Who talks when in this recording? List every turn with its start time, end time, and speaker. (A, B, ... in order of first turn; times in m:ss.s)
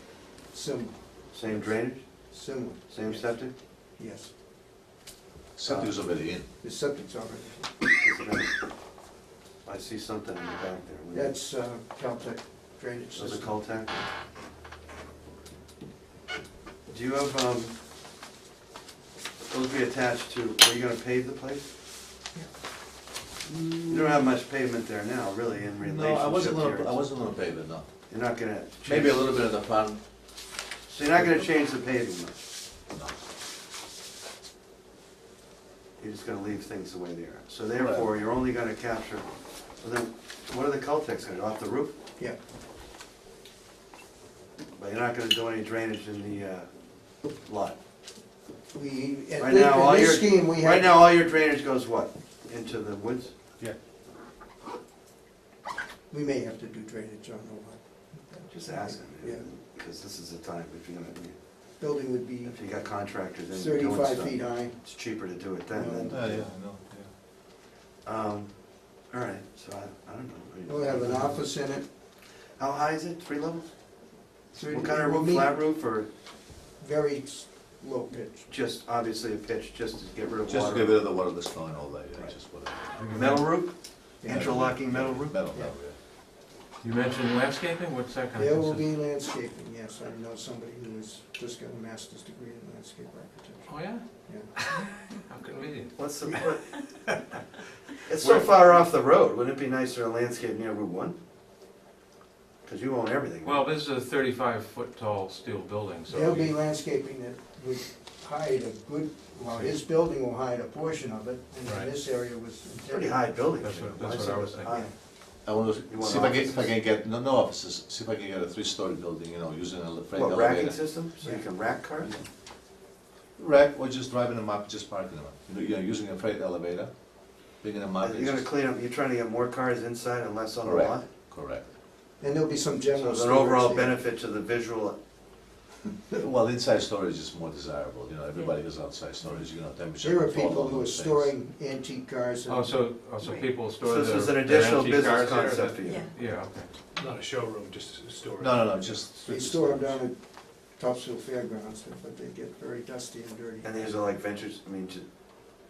0:00.5-0:01.7 A
0:01.3-0:02.1 B
0:02.2-0:03.4 A
0:02.9-0:03.5 B
0:04.0-0:04.3 A
0:05.6-0:06.4 C
0:06.6-0:07.7 A
0:08.0-0:08.5 B
0:09.6-0:11.3 B
0:11.1-0:14.0 A
0:13.1-0:13.9 B
0:16.9-0:17.7 B
0:19.4-0:21.6 B
0:23.5-0:24.2 C
0:23.9-0:27.0 B
0:25.8-0:27.9 C
0:28.1-0:29.3 B
0:28.8-0:30.0 C
0:30.9-0:32.4 B
0:31.2-0:31.4 C
0:32.9-0:33.2 C
0:36.0-0:39.3 B
0:37.8-0:38.1 C
0:39.8-0:41.9 B
0:44.8-0:46.7 B
0:47.3-0:47.8 B
0:48.7-0:50.9 A
0:49.4-0:53.3 B
0:56.1-0:59.5 A
0:58.5-1:01.4 B
1:01.8-1:02.7 A
1:02.4-1:06.5 B
1:03.5-1:04.8 A
1:05.7-1:06.4 A
1:06.1-1:07.1 C
1:08.0-1:11.4 B
1:10.6-1:11.8 A
1:12.5-1:13.7 B
1:14.5-1:16.1 B
1:14.5-1:15.7 A
1:16.6-1:18.5 A
1:18.5-1:21.0 B
1:20.5-1:22.9 C
1:22.9-1:23.6 D
1:23.0-1:25.4 B
1:24.2-1:24.6 A
1:24.2-1:25.9 C
1:26.8-1:28.9 D
1:28.3-1:34.6 A
1:33.7-1:36.1 D
1:35.9-1:36.8 B
1:38.0-1:41.2 B
1:42.6-1:43.6 B
1:43.4-1:46.6 D
1:46.1-1:53.3 A
1:52.9-1:54.9 B
1:53.6-1:54.8 D
1:54.6-1:54.9 A
1:55.4-2:00.8 C
1:55.9-1:56.7 B
2:00.1-2:02.1 B
2:03.4-2:08.4 C
2:08.0-2:11.1 B
2:10.6-2:11.7 C
2:12.2-2:14.0 A
2:12.9-2:15.0 B
2:16.1-2:21.3 C
2:20.0-2:22.9 A
2:22.4-2:26.7 D
2:23.8-2:26.1 B
2:27.0-2:29.4 E
2:28.4-2:29.9 C
2:29.2-2:33.9 A
2:33.6-2:35.0 B